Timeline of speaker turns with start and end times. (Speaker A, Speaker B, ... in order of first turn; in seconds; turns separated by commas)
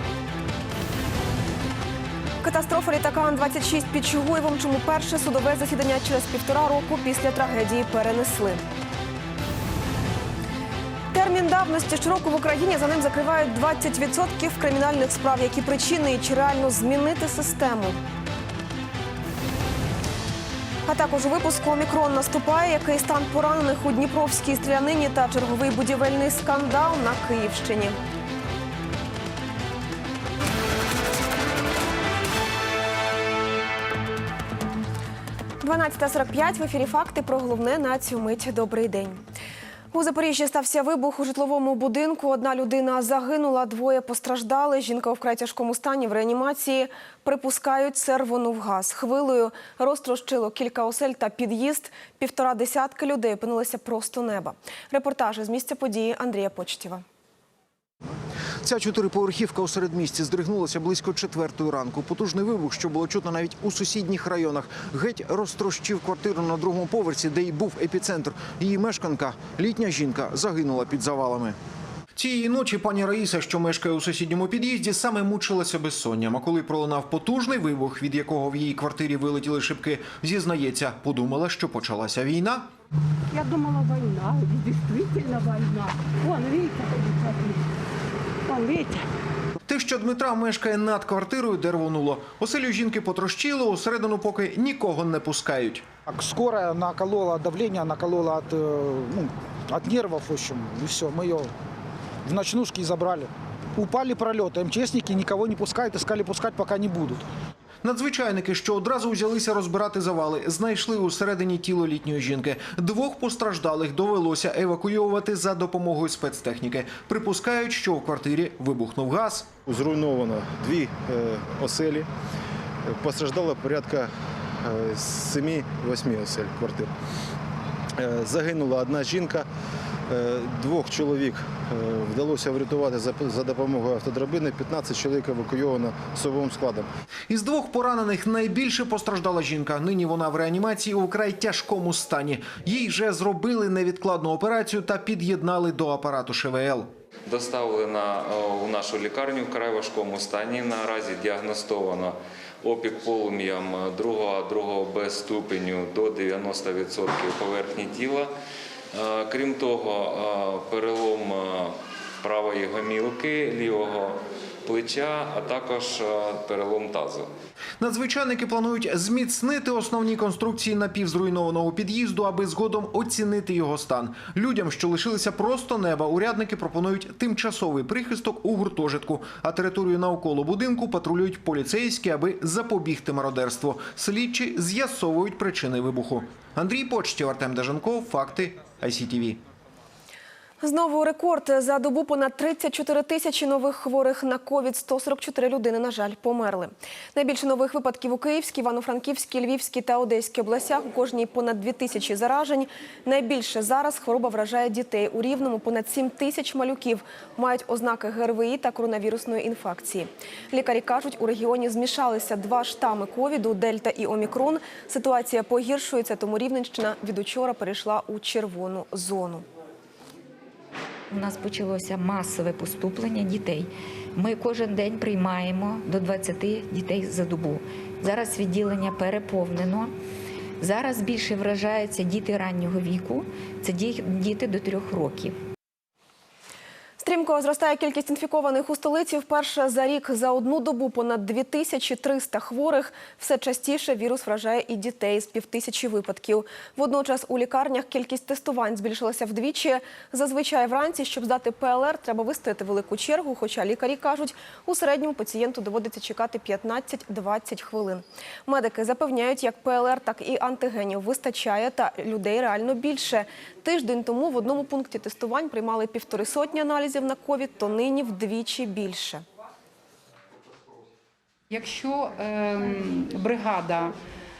Speaker A: 2.4-8.6, Speaker A: 11.1-18.0, Speaker A: 20.9-28.0, Speaker A: 35.6-39.2, Speaker A: 39.9-57.0, Speaker B: 58.6-71.6, Speaker B: 72.2-82.7, Speaker C: 83.3-87.6, Speaker C: 88.5-89.0, Speaker B: 89.7-95.8, Speaker D: 96.1-101.5, Speaker D: 102.2-107.2, Speaker B: 107.8-119.5, Speaker E: 119.7-122.1, Speaker E: 122.8-124.1, Speaker E: 124.6-126.9, Speaker E: 128.0-129.5, Speaker E: 130.1-136.9, Speaker B: 137.3-146.9, Speaker F: 147.3-158.3, Speaker F: 158.9-167.3, Speaker B: 167.8-189.4, Speaker A: 190.6-219.4, Speaker G: 221.1-229.9, Speaker G: 230.6-235.3, Speaker A: 237.0-269.2, Speaker H: 271.5-273.9